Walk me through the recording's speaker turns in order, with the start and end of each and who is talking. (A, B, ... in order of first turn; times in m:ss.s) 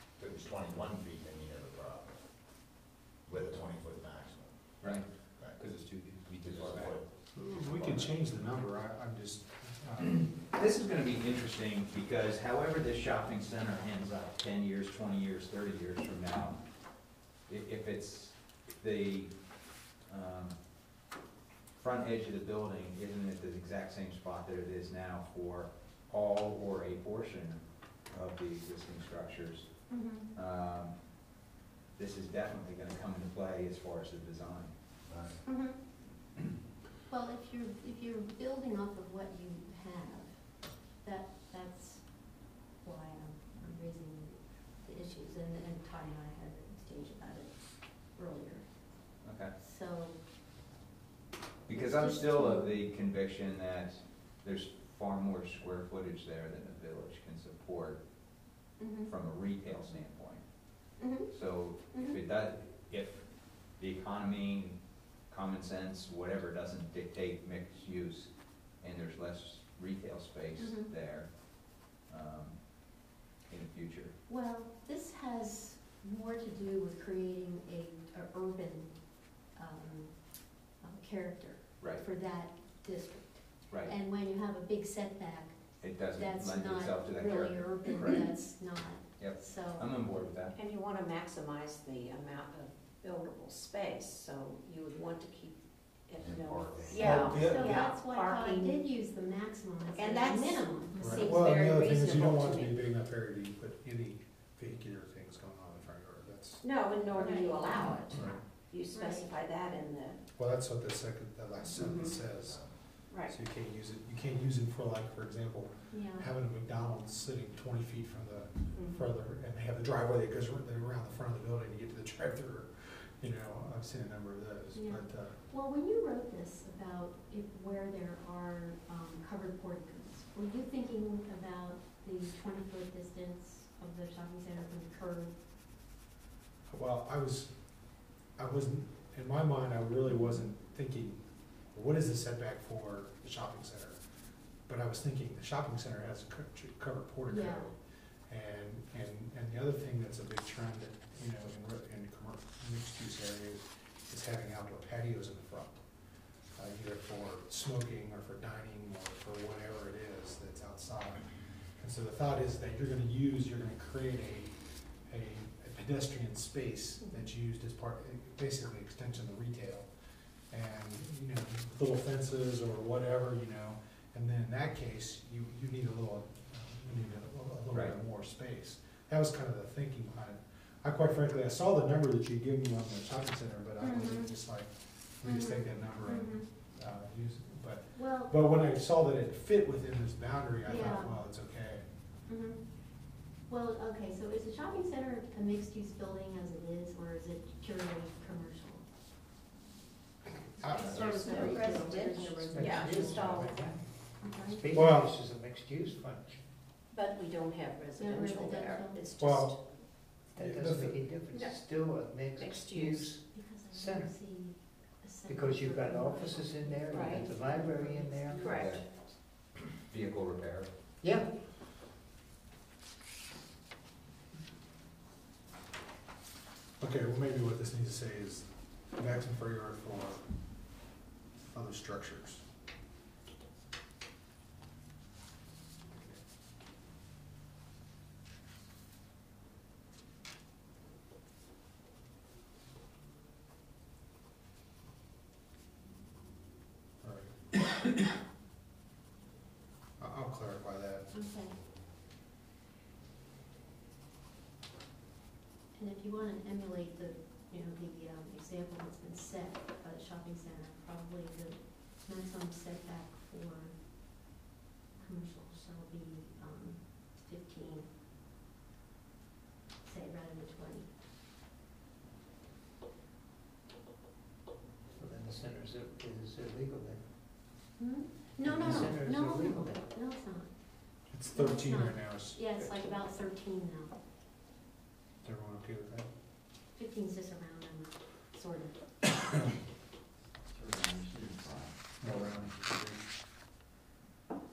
0:00.2-0:02.2 A
0:03.3-0:04.5 A
0:04.8-0:07.0 B
0:06.4-0:08.1 A
0:07.3-0:10.2 C
0:10.0-0:16.6 B
0:17.5-0:19.3 B
0:20.1-0:20.6 B
0:21.8-0:27.6 B
0:28.1-0:29.7 B
0:29.9-0:30.3 D
0:30.3-0:31.0 B
0:32.0-0:34.7 B
0:35.1-0:35.4 A
0:35.5-0:35.8 D
0:37.1-0:40.5 D
0:41.0-0:48.7 D
0:49.2-0:49.5 B
0:49.6-0:50.2 D
0:51.7-0:58.0 B
0:51.7-0:52.8 D
0:58.8-0:59.1 D
0:59.0-1:00.4 B
1:01.0-1:01.3 D
1:01.3-1:12.7 B
1:01.9-1:02.2 D
1:10.6-1:10.9 D
1:13.5-1:14.1 B
1:14.3-1:18.9 D
1:19.5-1:20.2 D
1:20.7-1:29.9 D
1:25.8-1:28.3 B
1:29.2-1:30.5 B
1:30.6-1:38.8 E
1:36.2-1:37.1 A
1:36.9-1:37.8 C
1:36.9-1:41.3 D
1:39.9-1:42.8 E
1:41.0-1:46.6 C
1:46.6-1:50.2 E
1:47.1-1:48.0 D
1:48.1-1:48.4 C
1:48.9-1:49.3 D
1:50.4-1:52.6 C
1:51.7-1:52.2 E
1:53.1-1:53.4 E
1:53.3-2:05.4 C
1:55.9-1:56.3 D
1:58.7-1:59.0 E
2:04.7-2:15.3 D
2:16.7-2:17.5 C
2:18.4-2:24.0 C
2:20.1-2:20.5 D
2:24.7-2:27.8 C
2:27.3-2:27.7 D
2:28.3-2:35.8 C
2:36.5-2:44.5 C
2:45.1-2:49.9 C
2:47.0-2:47.3 D
2:50.5-3:11.8 C
3:03.8-3:04.3 D
3:05.2-3:06.5 D
3:08.0-3:08.3 D
3:10.6-3:11.2 D
3:12.3-3:12.6 D
3:13.5-3:18.8 D
3:20.3-3:21.7 C
3:20.6-3:23.5 D
3:20.7-3:23.6 E
3:21.4-3:21.7 F
3:22.4-3:26.4 F
3:24.2-3:24.7 D
3:24.7-3:25.1 C
3:26.9-3:29.6 E
3:28.0-3:29.1 D
3:29.2-3:29.5 C
3:30.3-3:34.1 F
3:30.4-3:31.1 C
3:31.3-3:31.6 E
3:32.3-3:33.1 E
3:33.3-3:38.9 D
3:35.3-3:38.6 F
3:36.9-3:37.3 E
3:38.4-3:38.8 E
3:38.4-3:39.0 B
3:39.7-3:40.7 B
3:41.0-3:41.4 F
3:46.8-3:50.3 C
3:51.5-3:52.4 C
3:55.9-3:56.2 C
4:07.0-4:07.5 C
4:10.0-4:11.1 C
4:11.1-4:11.6 D
4:15.8-4:23.8 D
4:25.0-4:27.9 D
4:29.8-4:30.9 D
4:35.0-4:37.0 F
4:37.8-4:40.5 D
4:38.4-4:39.8 F
4:41.1-4:42.4 C
4:41.3-4:44.0 D
4:45.2-4:46.1 C
4:46.8-4:48.8 D
4:50.5-4:52.5 B
4:52.0-4:53.0 C